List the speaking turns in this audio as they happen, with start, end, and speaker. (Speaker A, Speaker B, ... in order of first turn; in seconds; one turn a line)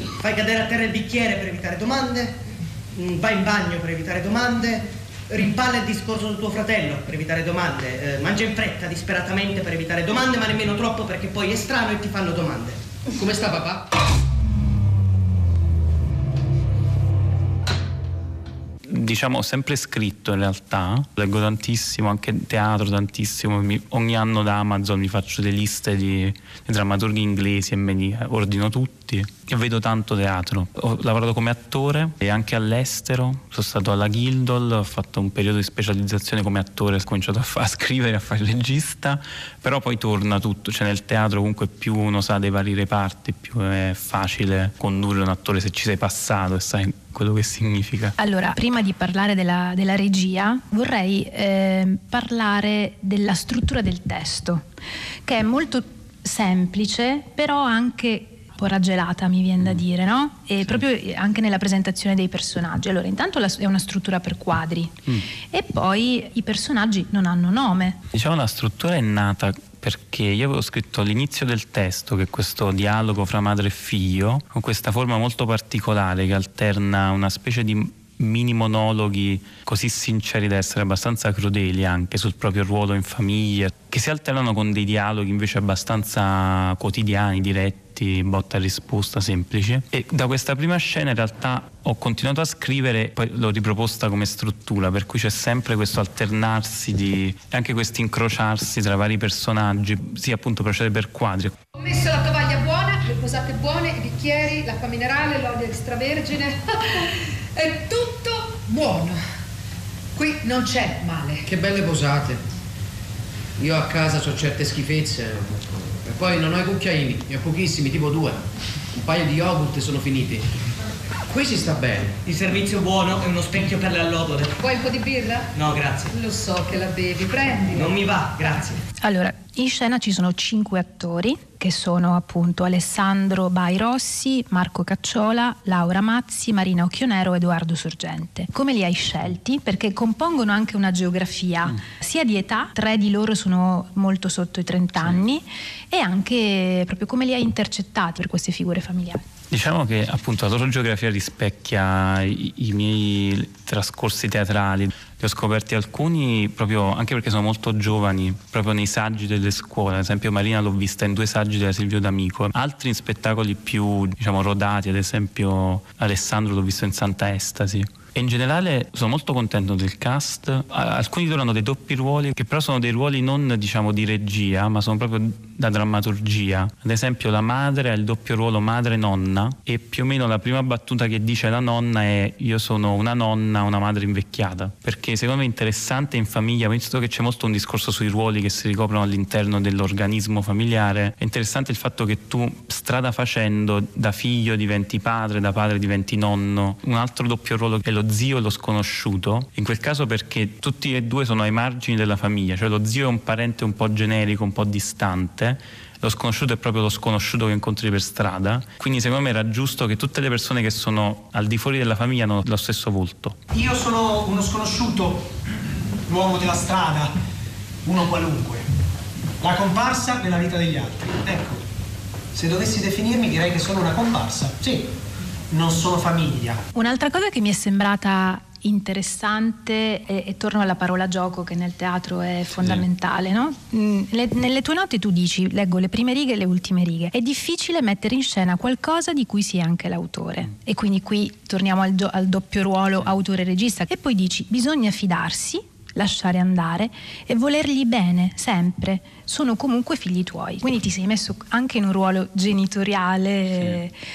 Speaker A: 0.2-2.4
Speaker A: 3.0-13.8
Speaker B: 13.4-13.7
Speaker C: 18.9-48.2
Speaker D: 48.2-54.6
Speaker D: 55.3-68.0
Speaker C: 68.1-101.5
Speaker E: 101.8-109.2
Speaker E: 110.2-111.5
Speaker B: 111.5-112.4
Speaker B: 113.6-118.4
Speaker B: 119.0-120.4
Speaker B: 121.3-122.2
Speaker A: 122.2-124.5
Speaker E: 124.6-125.5
Speaker A: 125.6-126.1
Speaker E: 126.1-128.0
Speaker A: 127.8-128.8
Speaker D: 129.0-149.2
Speaker C: 149.5-213.4
Speaker F: 213.5-215.3
Speaker F: 216.1-217.1
Speaker F: 217.9-218.7
Speaker F: 219.4-221.7
Speaker F: 222.3-224.9
Speaker F: 225.5-226.6
Speaker D: 226.7-253.9